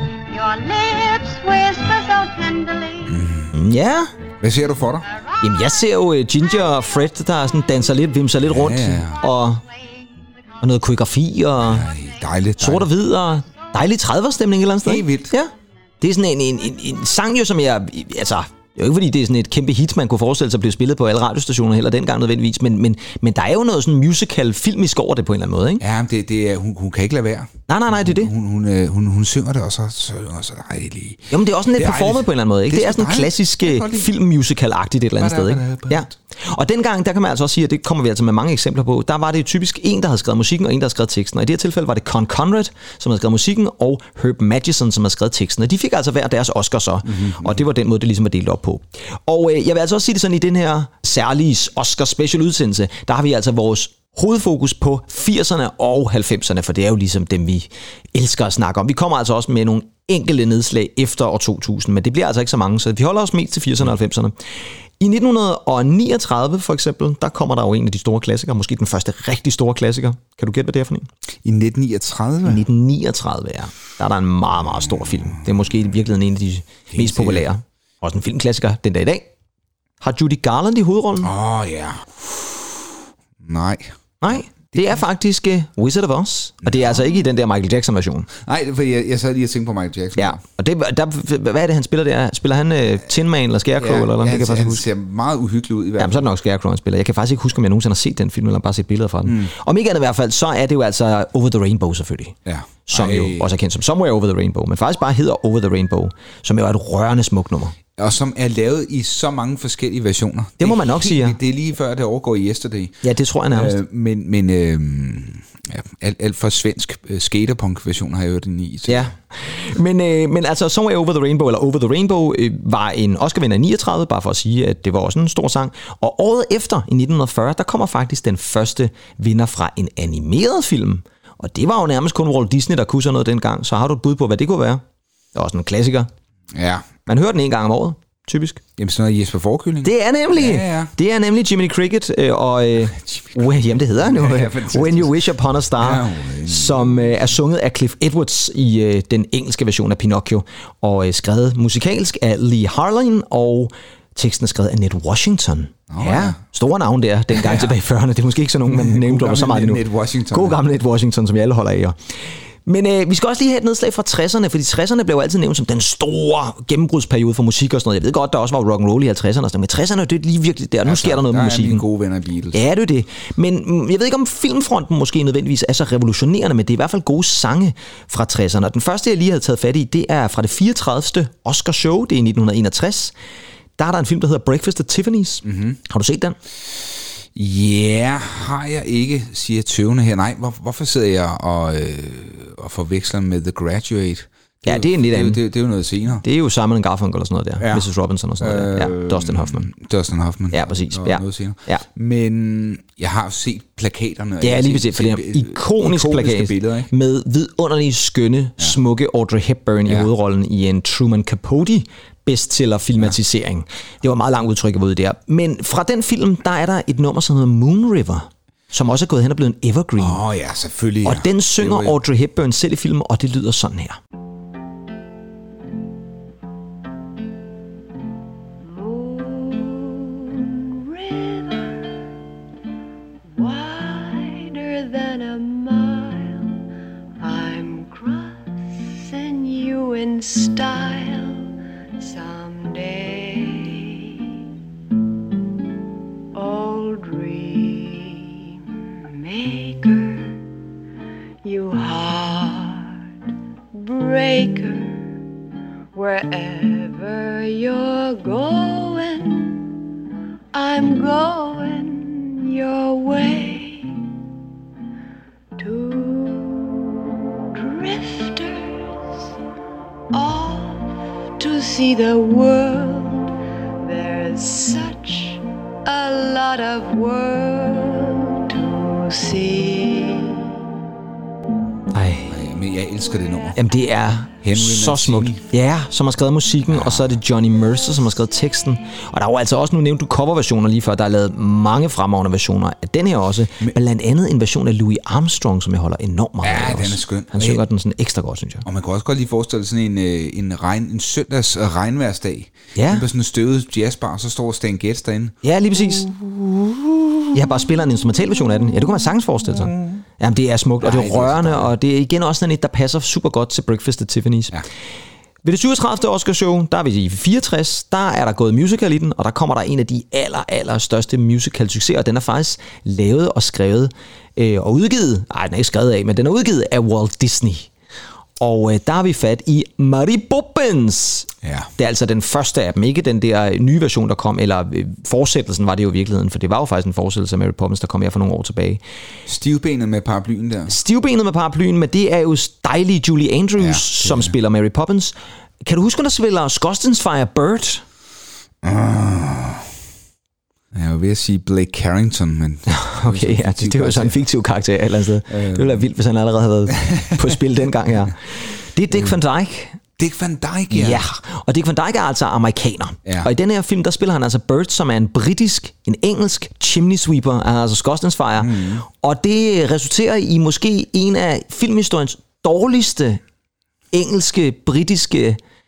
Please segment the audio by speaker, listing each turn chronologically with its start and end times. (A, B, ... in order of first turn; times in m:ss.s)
0:00.3-0:03.2 A
0:03.1-0:03.5 B
0:03.5-0:04.1 C
0:04.4-0:05.0 B
0:05.1-0:05.8 A
0:05.4-0:09.6 C
0:08.4-0:09.2 B
0:09.6-0:10.6 A
0:10.6-0:11.9 C
0:11.6-0:12.9 B
0:12.6-0:25.8 C
0:14.8-0:15.3 B
0:25.8-0:34.1 B
0:27.7-0:28.3 C
0:31.3-1:04.3 C
0:35.2-0:36.2 B
0:47.1-0:47.6 B
1:05.0-1:11.1 C
1:11.4-1:12.6 B
1:12.4-1:19.3 C
1:14.8-1:15.7 B
1:16.9-1:17.5 B
1:20.0-1:21.3 C
1:21.2-1:22.8 B
1:23.4-1:25.0 B
1:24.2-1:28.3 C
1:26.6-1:27.0 B
1:28.4-1:30.4 B
1:30.2-1:34.8 C
1:33.8-1:36.3 B
1:36.0-1:47.8 C
1:39.2-1:39.5 B
1:42.4-1:43.5 B
1:48.0-1:59.1 B
1:50.6-1:51.4 C
1:53.0-1:53.8 C
1:58.9-2:14.8 C
2:15.3-2:16.1 C
2:16.5-2:16.9 B
2:17.1-2:18.6 C
2:18.8-2:20.9 B
2:19.8-2:51.8 C
2:22.9-2:25.2 B
2:25.8-2:27.2 B
2:35.9-2:36.4 B
2:37.3-2:37.7 B
2:38.7-2:40.6 B
2:50.8-2:52.6 B
2:52.5-3:03.1 C
3:03.8-3:06.4 C
3:05.4-3:05.8 B
3:07.3-3:16.2 B
3:14.7-3:15.4 C
3:16.2-3:19.7 C
3:17.6-3:17.8 B
3:18.4-3:26.9 B
3:20.5-3:21.8 C
3:24.4-3:40.2 C
3:40.0-3:42.0 B
3:41.0-3:44.0 C
3:48.6-3:51.9 D
3:53.3-3:56.6 D
3:57.2-3:58.4 D
3:59.0-4:01.5 D
4:02.0-4:04.3 D
4:06.3-4:10.4 D
4:11.4-4:13.0 D
4:13.7-4:15.1 D
4:15.9-4:19.7 D
4:20.5-4:24.0 D
4:25.6-4:26.9 D
4:27.5-4:28.9 D
4:30.1-4:33.3 D
4:33.8-4:40.5 D
4:41.9-4:42.3 C
4:42.3-4:43.6 B
4:43.6-4:58.6 C
4:44.4-4:45.4 B
4:46.7-4:47.2 B
4:56.4-4:57.6 B
4:58.6-5:05.4 B
5:02.8-5:03.1 C
5:05.4-5:06.1 C
5:06.0-5:06.7 B
5:07.3-5:14.6 C
5:09.4-5:10.0 B
5:10.8-5:11.7 B
5:15.4-5:27.7 C
5:28.4-5:38.8 C
5:31.4-5:31.7 B
5:39.3-5:40.7 B
5:40.7-5:47.8 C
5:43.6-5:44.3 B
5:48.6-5:49.7 B
5:50.7-5:54.2 B
5:52.7-5:59.8 C
5:55.3-5:55.8 B
5:56.7-5:57.3 B
6:00.0-6:01.0 B
6:00.7-6:13.2 C
6:08.4-6:08.8 B
6:13.9-6:15.4 C